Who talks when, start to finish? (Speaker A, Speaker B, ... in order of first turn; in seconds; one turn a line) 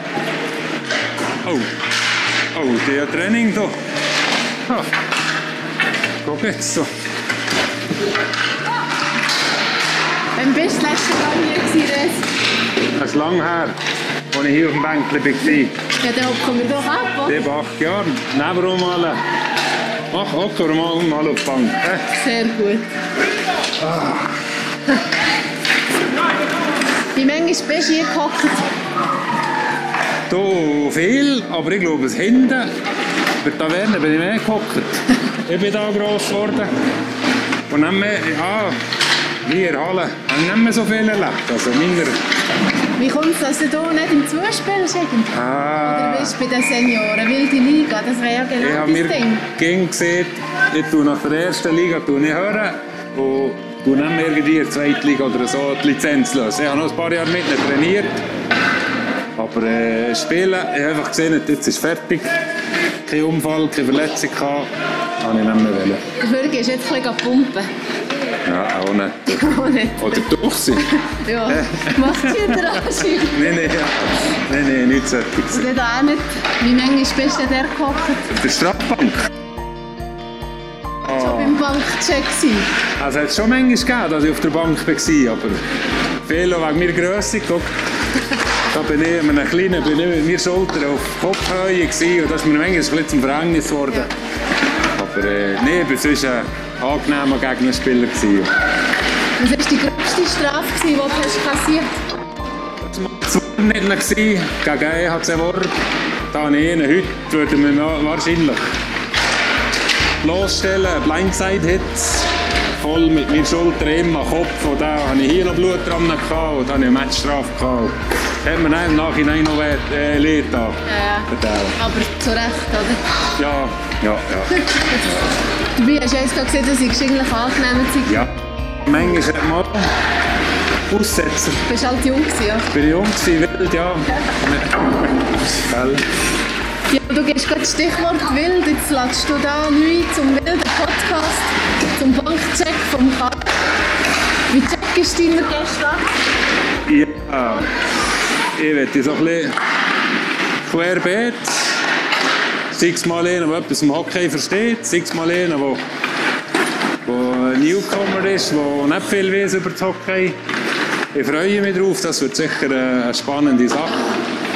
Speaker A: 2.5-3.7
Speaker A: 6.2-6.9
Speaker B: 10.4-12.3
Speaker A: 12.9-13.7
Speaker A: 14.3-15.7
Speaker B: 16.0-17.5
Speaker A: 17.3-19.2
Speaker A: 20.1-22.1
Speaker B: 22.2-22.9
Speaker A: 23.8-24.3
Speaker B: 27.1-28.7
Speaker A: 30.3-32.7
Speaker A: 33.4-36.7
Speaker A: 37.7-38.8
Speaker A: 39.4-42.2
Speaker B: 43.0-49.5
Speaker A: 45.3-46.4
Speaker A: 48.6-58.2
Speaker A: 59.4-62.3
Speaker A: 63.1-64.7
Speaker A: 65.2-66.0
Speaker B: 66.2-67.7
Speaker A: 68.5-69.4
Speaker B: 69.3-73.6
Speaker A: 70.0-70.9
Speaker A: 71.5-75.7
Speaker B: 75.5-78.3
Speaker A: 78.3-79.2
Speaker A: 81.0-81.6
Speaker B: 81.0-82.7
Speaker A: 83.0-85.6
Speaker A: 86.3-87.7
Speaker A: 88.7-94.1
Speaker A: 95.0-98.5
Speaker B: 99.4-102.0
Speaker A: 102.8-105.7
Speaker A: 106.3-108.6
Speaker A: 110.2-121.8
Speaker B: 120.9-123.0
Speaker A: 123.4-124.5
Speaker B: 124.7-125.2
Speaker B: 125.8-128.3
Speaker A: 128.1-129.9
Speaker A: 130.9-131.6
Speaker B: 131.7-132.7
Speaker A: 132.7-136.1
Speaker B: 136.9-143.5
Speaker B: 144.5-146.1
Speaker A: 146.9-147.7
Speaker A: 148.6-149.5
Speaker A: 150.6-151.5
Speaker A: 152.7-155.8
Speaker A: 157.1-160.3
Speaker A: 161.1-164.1